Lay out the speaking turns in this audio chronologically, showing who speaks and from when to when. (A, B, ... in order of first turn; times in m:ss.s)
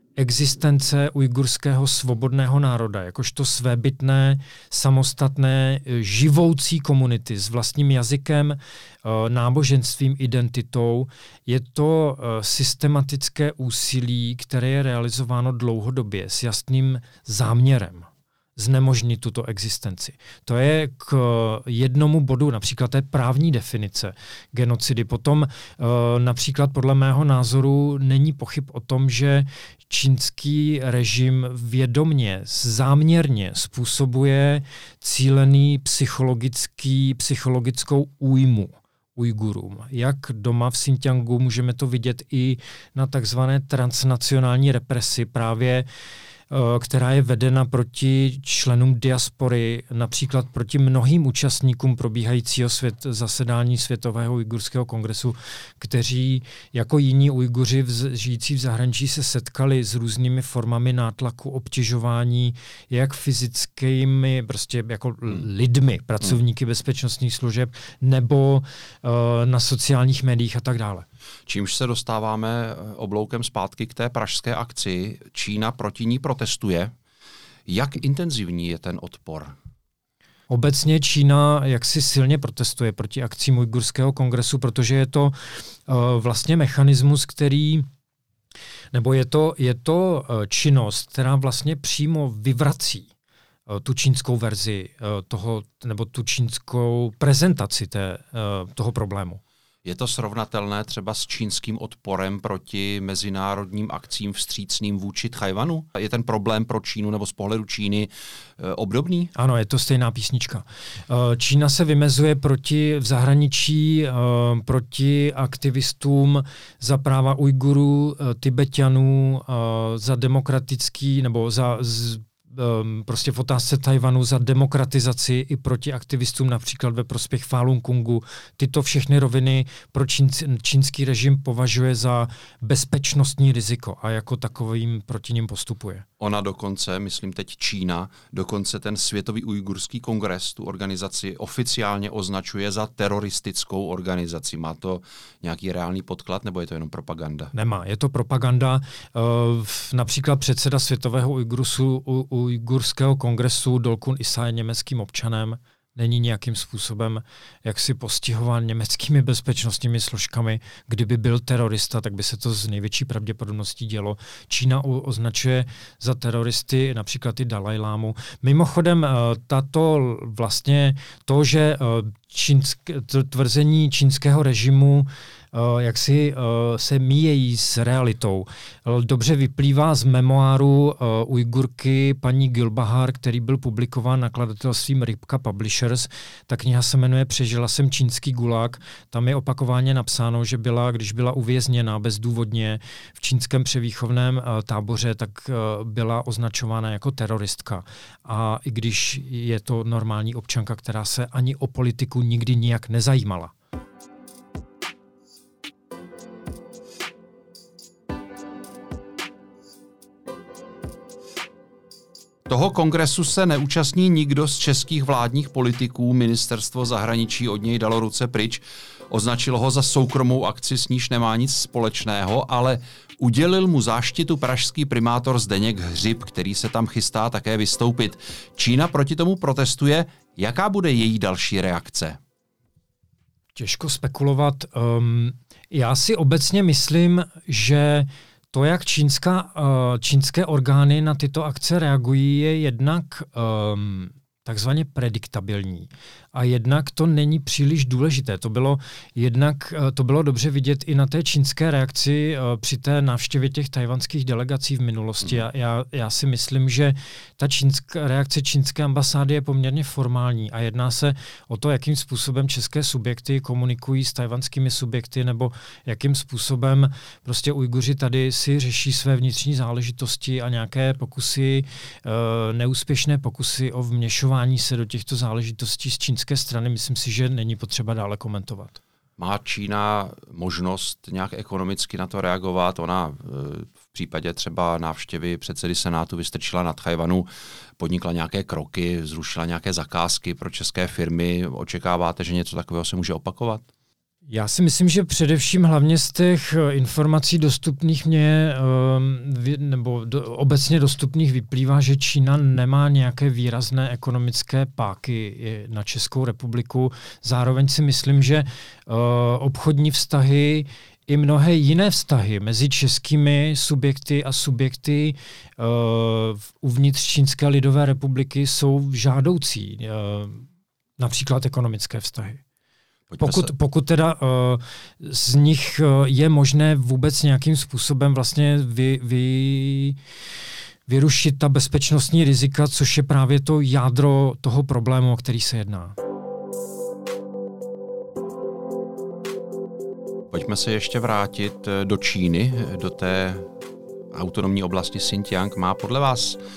0:00.2-0:45.9 A
0:46.5-1:11.1 A
1:11.5-1:16.9 B
1:17.7-1:19.6 B
1:20.5-1:27.9 A
1:28.9-1:33.1 A
1:33.7-1:39.4 A
1:39.8-1:49.3 B
1:49.4-2:16.1 A
2:16.2-2:27.5 B
2:27.5-3:23.5 A
3:32.5-3:52.2 B
3:53.6-4:38.8 A
4:39.2-4:53.6 B
4:54.3-5:20.4 A
5:21.0-5:22.4 A
5:23.1-5:23.5 B
5:23.2-5:30.0 A
5:30.9-5:36.0 A
5:40.3-5:43.5 B
5:44.1-5:46.4 B